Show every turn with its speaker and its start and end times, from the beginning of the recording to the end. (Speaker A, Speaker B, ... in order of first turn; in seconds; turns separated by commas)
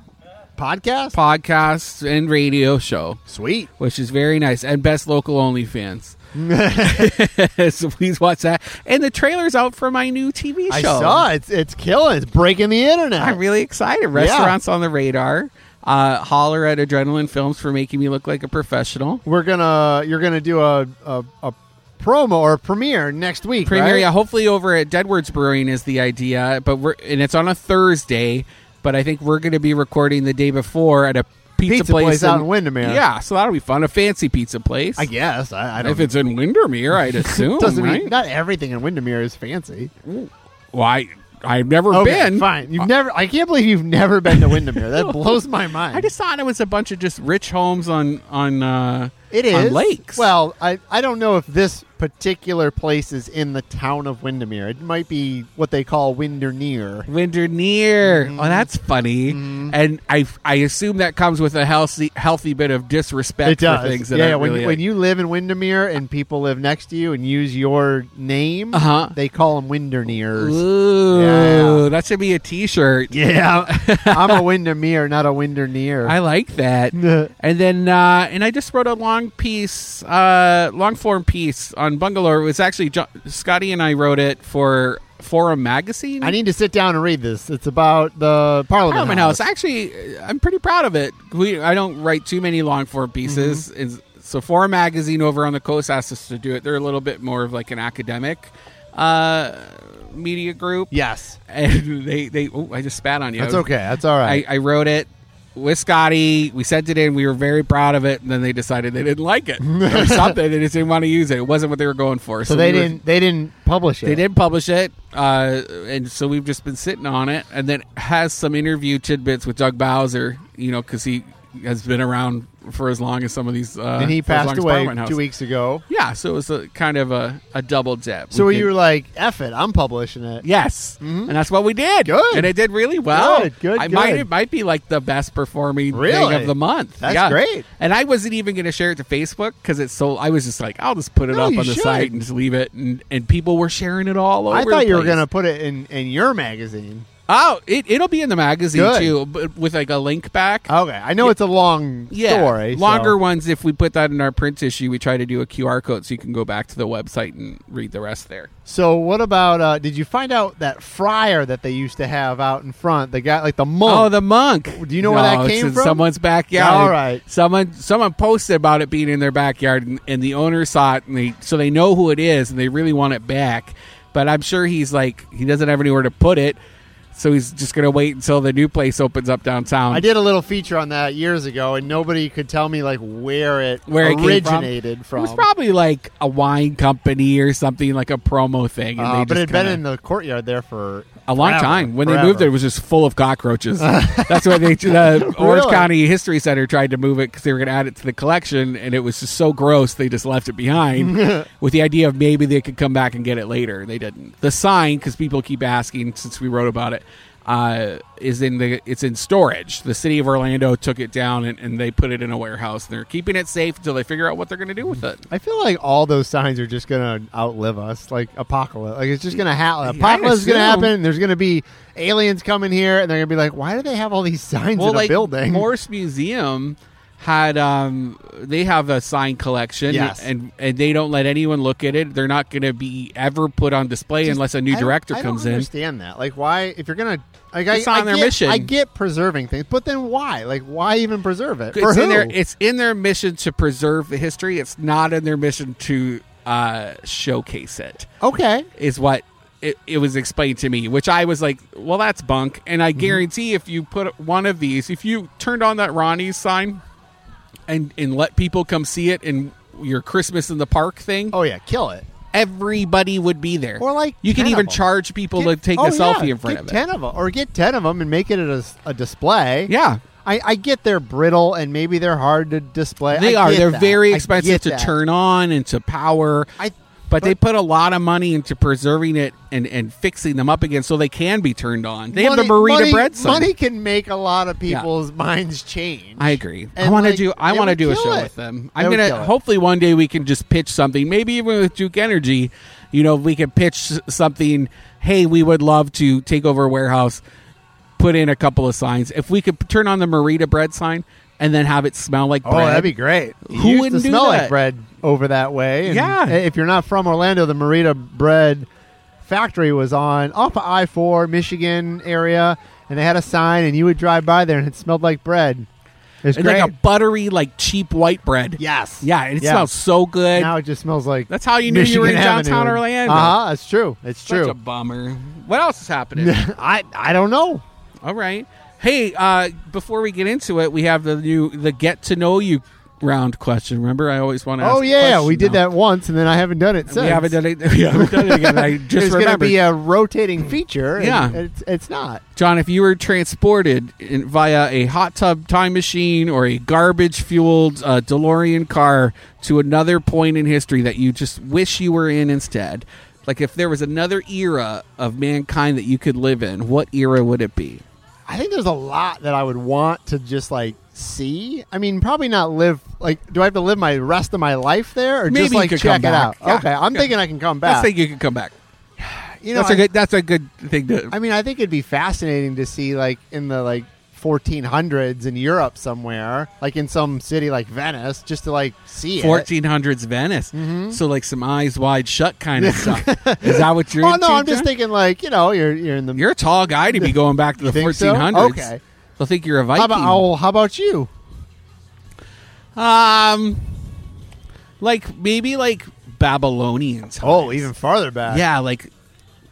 Speaker A: 0.6-1.1, Speaker B: 1.1-3.2, Speaker A: 3.3-3.7, Speaker B: 3.8-6.1, Speaker A: 6.3-7.1, Speaker B: 6.8-11.3, Speaker A: 10.7-13.4, Speaker B: 13.2-19.2, Speaker A: 14.1-14.6, Speaker A: 19.2-24.1, Speaker B: 23.6-35.1, Speaker A: 31.6-33.0, Speaker A: 35.0-36.1, Speaker B: 35.8-38.1, Speaker A: 37.2-39.9, Speaker B: 40.0-42.9, Speaker A: 41.9-46.1, Speaker B: 44.3-50.3, Speaker A: 49.3-57.1, Speaker B: 57.1-64.8, Speaker A: 58.0-58.7, Speaker A: 59.3-59.7, Speaker A: 63.4-71.8, Speaker B: 68.7-69.1, Speaker B: 70.3-73.1, Speaker A: 73.1-76.1, Speaker B: 73.7-74.4, Speaker B: 76.0-86.3, Speaker A: 76.9-77.3, Speaker A: 86.2-89.4, Speaker B: 88.9-100.9, Speaker A: 93.2-93.6, Speaker A: 100.9-101.4, Speaker B: 101.5-103.7, Speaker A: 103.4-104.4, Speaker B: 104.2-113.0, Speaker A: 109.6-110.3, Speaker A: 112.4-114.2, Speaker B: 114.0-125.2, Speaker A: 124.0-125.8, Speaker B: 125.9-128.7, Speaker A: 128.3-130.4, Speaker B: 130.4-145.2, Speaker A: 131.0-131.3, Speaker A: 132.0-132.5, Speaker A: 133.1-134.3, Speaker A: 135.9-137.7, Speaker A: 141.3-142.1, Speaker A: 144.5-147.1, Speaker B: 147.3-151.3, Speaker A: 148.7-149.1, Speaker A: 150.7-153.1, Speaker B: 152.1-158.5, Speaker A: 158.7-164.1, Speaker B: 163.8-176.6, Speaker A: 164.7-167.2, Speaker B: 177.1-180.0, Speaker A: 179.9-185.5, Speaker B: 183.8-189.8, Speaker A: 189.0-192.5, Speaker B: 191.3-215.2, Speaker A: 193.8-195.9, Speaker A: 201.0-201.4, Speaker A: 215.3-225.7, Speaker B: 219.8-220.9, Speaker B: 224.8-235.7, Speaker A: 229.9-230.3, Speaker A: 234.2-242.3, Speaker B: 237.7-238.7, Speaker B: 241.7-248.1, Speaker A: 248.2-248.7, Speaker B: 248.8-256.8, Speaker B: 257.7-261.3, Speaker A: 261.3-262.0, Speaker B: 262.3-266.8, Speaker A: 263.8-264.8, Speaker A: 265.3-269.7, Speaker B: 269.7-270.0, Speaker A: 270.2-274.9, Speaker B: 273.1-276.5, Speaker A: 276.6-277.4, Speaker B: 277.1-283.5, Speaker A: 282.1-289.3, Speaker B: 286.2-297.2, Speaker B: 298.0-302.9, Speaker A: 302.4-308.7, Speaker B: 303.4-304.5, Speaker B: 305.8-306.4, Speaker A: 309.2-315.7, Speaker A: 316.2-316.7, Speaker B: 316.3-320.5, Speaker A: 318.6-319.7, Speaker A: 320.3-324.6, Speaker B: 321.3-323.4, Speaker B: 324.2-326.4, Speaker A: 326.1-327.6, Speaker B: 328.0-335.6, Speaker A: 334.6-337.4, Speaker B: 336.9-339.6, Speaker A: 337.9-342.2, Speaker B: 341.0-341.4, Speaker B: 342.4-357.8, Speaker A: 358.3-367.9, Speaker B: 365.3-367.1, Speaker B: 367.6-368.5, Speaker A: 369.0-369.9, Speaker B: 369.5-371.1, Speaker A: 371.1-379.5, Speaker B: 379.1-384.7, Speaker A: 380.5-381.0, Speaker A: 382.6-386.2, Speaker B: 386.1-390.2, Speaker A: 386.9-388.8, Speaker A: 389.7-391.1, Speaker B: 392.7-393.9, Speaker B: 394.8-397.7, Speaker A: 397.2-398.4, Speaker B: 398.3-398.9